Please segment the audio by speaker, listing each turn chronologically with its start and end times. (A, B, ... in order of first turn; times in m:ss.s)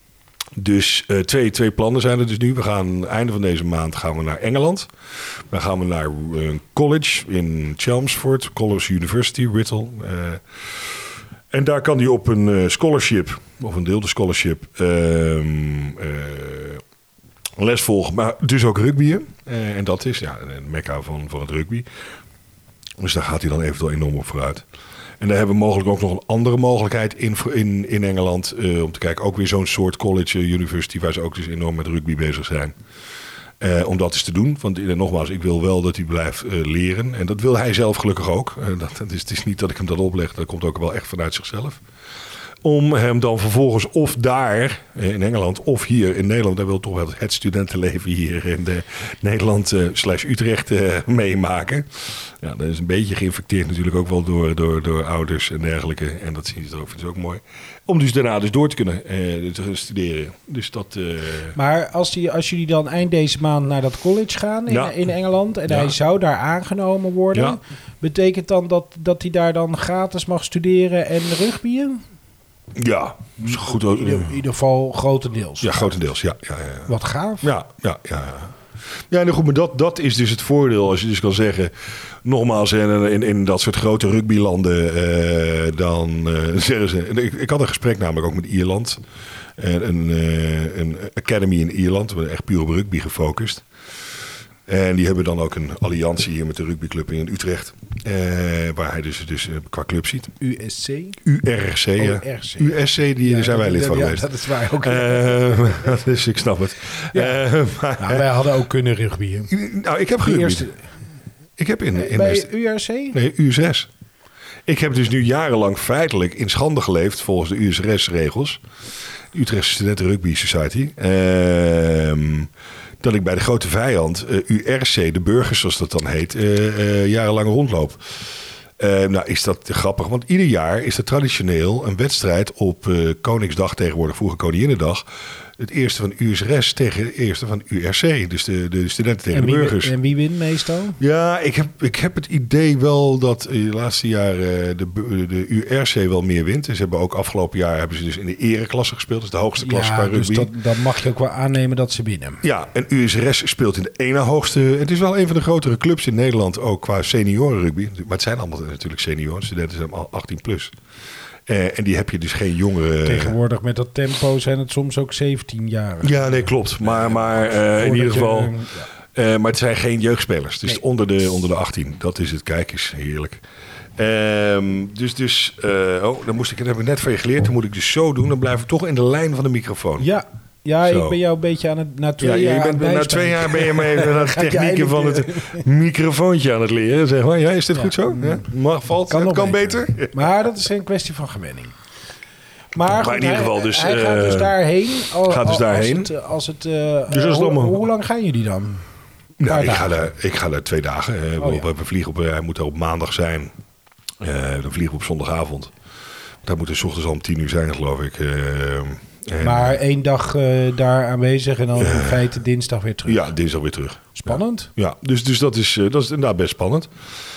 0:00.6-0:16.8 A
0:17.6-0:21.8 A
0:23.0-0:24.6 A
0:25.2-0:32.8 A
0:33.6-0:41.8 A
0:42.6-1:01.6 A
1:01.5-1:12.0 B
1:04.7-1:04.9 A
1:05.7-1:06.0 A
1:12.7-1:14.4 A
1:13.4-1:15.9 B
1:15.6-1:18.6 A
1:16.9-1:17.5 B
1:19.1-1:29.0 A
1:29.6-1:33.6 A
1:34.7-1:40.3 A
1:40.4-1:41.2 B
1:41.2-1:48.2 A
1:42.0-1:45.9 B
1:47.1-1:47.4 B
1:47.9-1:49.5 B
1:49.5-1:50.7 A
1:50.2-1:50.9 B
1:51.6-1:52.5 A
1:51.9-1:53.2 B
1:53.1-1:53.9 A
1:54.7-1:58.6 A
1:59.3-2:02.5 A
2:03.0-2:15.0 A
2:15.6-2:19.9 A
2:19.3-2:21.0 B
2:21.0-2:30.5 A
2:29.6-2:32.4 B
2:32.4-2:40.7 A
2:41.5-2:43.4 A
2:43.0-2:48.9 B
2:46.0-2:48.5 A
2:49.1-2:53.4 A
2:54.0-3:00.1 A
3:00.0-3:05.6 B
3:00.8-3:01.2 A
3:02.2-3:10.3 A
3:07.7-3:08.5 B
3:09.1-3:11.7 B
3:12.7-3:18.8 B
3:12.8-3:14.6 A
3:15.2-3:16.1 A
3:17.1-3:17.8 A
3:19.4-3:23.5 A
3:19.4-3:20.0 B
3:21.4-3:21.6 B
3:24.2-3:25.7 A
3:26.4-3:29.8 A
3:29.4-3:33.3 B
3:31.8-3:32.3 A
3:33.0-3:36.9 A
3:34.1-3:34.7 B